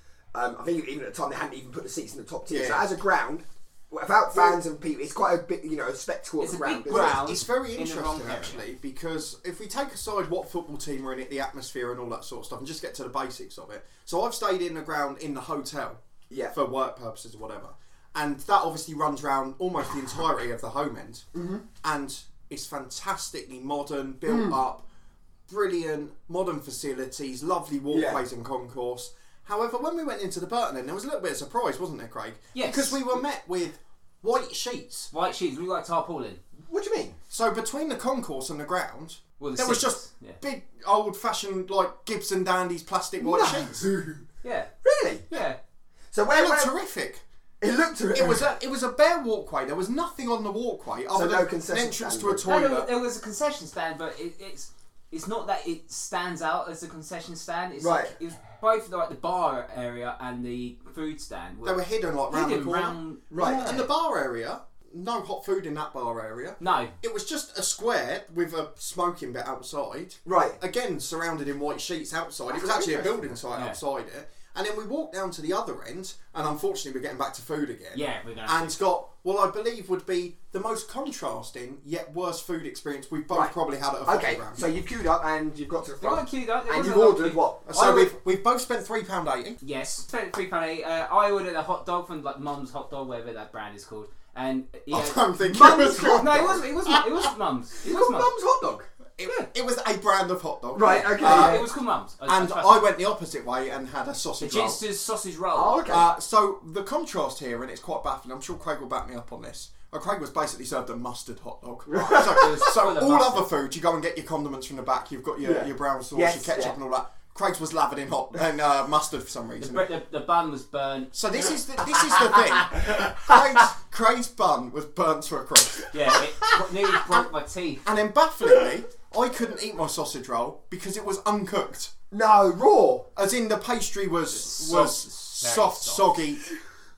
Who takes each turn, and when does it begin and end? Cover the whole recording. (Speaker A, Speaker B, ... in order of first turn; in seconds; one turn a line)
Speaker A: 0.3-7.3
Speaker B: 2.5-2.8
Speaker C: 6.4-8.6
Speaker B: 6.9-16.0
Speaker B: 16.5-21.2
Speaker A: 21.4-21.6
Speaker B: 21.8-24.9
Speaker A: 24.3-24.6
Speaker B: 25.5-35.1
Speaker A: 27.9-28.2
Speaker C: 32.5-33.2
Speaker C: 35.1-36.4
Speaker A: 36.7-37.2
Speaker B: 37.3-43.9
Speaker C: 39.4-40.4
Speaker A: 43.2-44.2
Speaker C: 44.4-44.7
Speaker A: 44.8-45.3
Speaker C: 45.3-45.6
Speaker A: 46.1-46.7
Speaker B: 46.3-47.2
Speaker A: 47.6-48.5
Speaker B: 48.1-52.9
Speaker A: 51.1-52.9
Speaker C: 52.5-63.9
Speaker A: 57.8-58.2
Speaker B: 61.6-84.8
Speaker A: 63.3-63.8
Speaker C: 66.6-67.0
Speaker A: 70.2-70.6
Speaker A: 72.5-73.4
Speaker C: 77.9-78.8
Speaker A: 84.0-87.7
Speaker C: 86.0-88.1
Speaker B: 87.7-89.6
Speaker C: 89.6-98.3
Speaker B: 94.9-97.3
Speaker A: 95.5-96.6
Speaker A: 97.8-98.9
Speaker B: 99.2-101.7
Speaker A: 100.7-101.7
Speaker C: 101.2-102.9
Speaker B: 102.3-104.8
Speaker C: 104.4-105.9
Speaker A: 105.5-106.1
Speaker B: 105.9-119.9
Speaker A: 111.9-112.4
Speaker C: 112.0-113.5
Speaker A: 115.4-116.8
Speaker C: 119.6-122.7
Speaker B: 121.1-127.3
Speaker C: 125.9-127.8
Speaker B: 127.8-131.9
Speaker A: 132.1-133.1
Speaker B: 133.2-136.4
Speaker C: 134.4-136.2